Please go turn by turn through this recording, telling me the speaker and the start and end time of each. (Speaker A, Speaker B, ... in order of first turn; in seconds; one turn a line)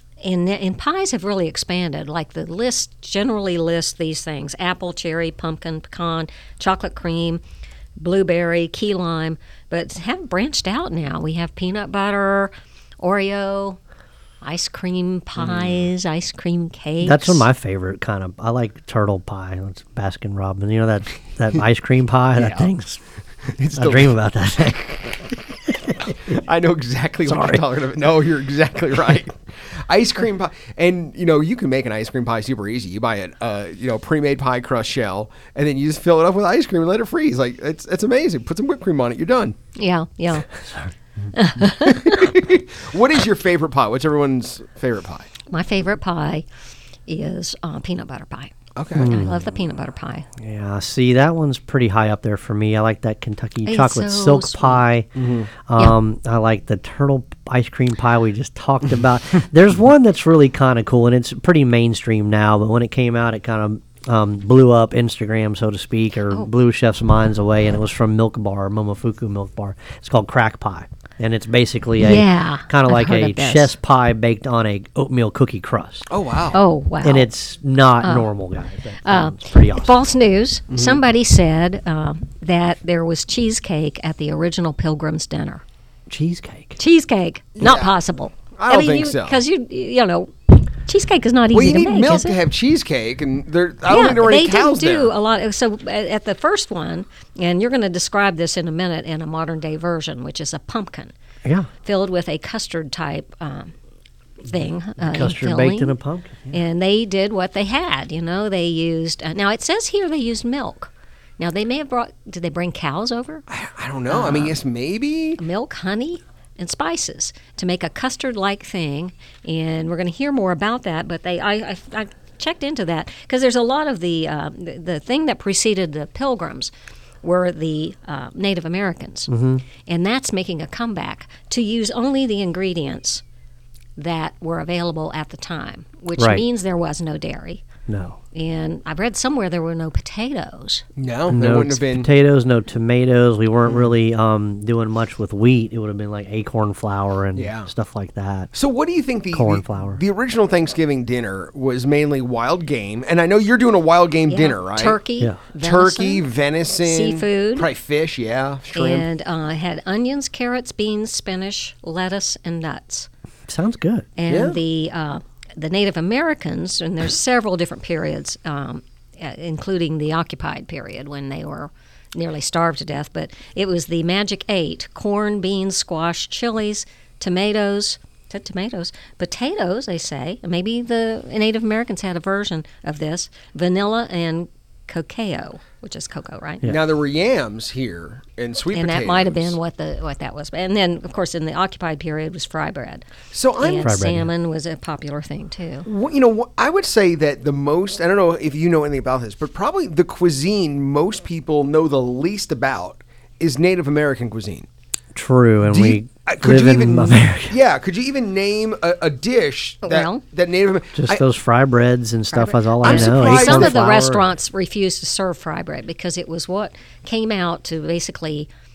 Speaker A: 0.2-7.4
Speaker A: 8.0-13.8
Speaker A: 14.4-17.4
Speaker B: 15.4-15.9
Speaker C: 17.0-23.0
Speaker B: 22.4-22.7
Speaker B: 23.6-24.2
Speaker C: 23.7-26.3
Speaker B: 26.0-39.5
Speaker C: 27.2-27.6
Speaker A: 39.7-40.5
Speaker A: 41.3-42.2
Speaker B: 41.8-45.3
Speaker A: 45.5-46.4
Speaker A: 47.0-50.2
Speaker B: 48.8-49.1
Speaker C: 48.9-49.4
Speaker C: 50.4-76.1
Speaker A: 53.6-54.8
Speaker B: 55.1-55.5
Speaker A: 72.0-73.7
Speaker B: 76.1-76.6
Speaker A: 76.5-77.3
Speaker C: 77.0-79.9
Speaker A: 78.0-78.3
Speaker A: 79.0-85.6
Speaker B: 80.7-81.0
Speaker C: 86.1-86.8
Speaker A: 86.8-92.4
Speaker B: 87.6-88.0
Speaker B: 88.5-89.4
Speaker B: 91.5-95.1
Speaker A: 93.9-101.1
Speaker A: 101.8-103.7
Speaker A: 104.4-105.9
Speaker C: 105.0-106.5
Speaker A: 106.5-113.4
Speaker B: 113.5-115.4
Speaker A: 114.1-114.6
Speaker A: 115.4-126.7
Speaker A: 127.2-129.3
Speaker C: 129.3-129.6
Speaker A: 129.8-133.2
Speaker A: 133.9-137.6
Speaker C: 136.2-136.4
Speaker C: 137.9-138.2
Speaker A: 138.3-140.8
Speaker B: 141.0-142.1
Speaker C: 141.3-148.5
Speaker B: 147.3-147.7
Speaker B: 148.5-155.0
Speaker C: 149.3-150.0
Speaker A: 154.3-156.2
Speaker B: 155.6-159.1
Speaker A: 156.8-157.7
Speaker A: 158.7-163.1
Speaker C: 163.5-164.1
Speaker A: 164.2-186.7
Speaker B: 164.3-164.6
Speaker B: 186.7-189.6
Speaker A: 188.7-193.1
Speaker B: 193.3-193.9
Speaker A: 193.6-195.9
Speaker C: 193.8-194.3
Speaker B: 195.8-204.7
Speaker C: 205.1-207.6
Speaker B: 205.7-211.2
Speaker A: 209.8-210.2
Speaker C: 210.9-214.3
Speaker A: 212.3-218.5
Speaker B: 212.8-213.8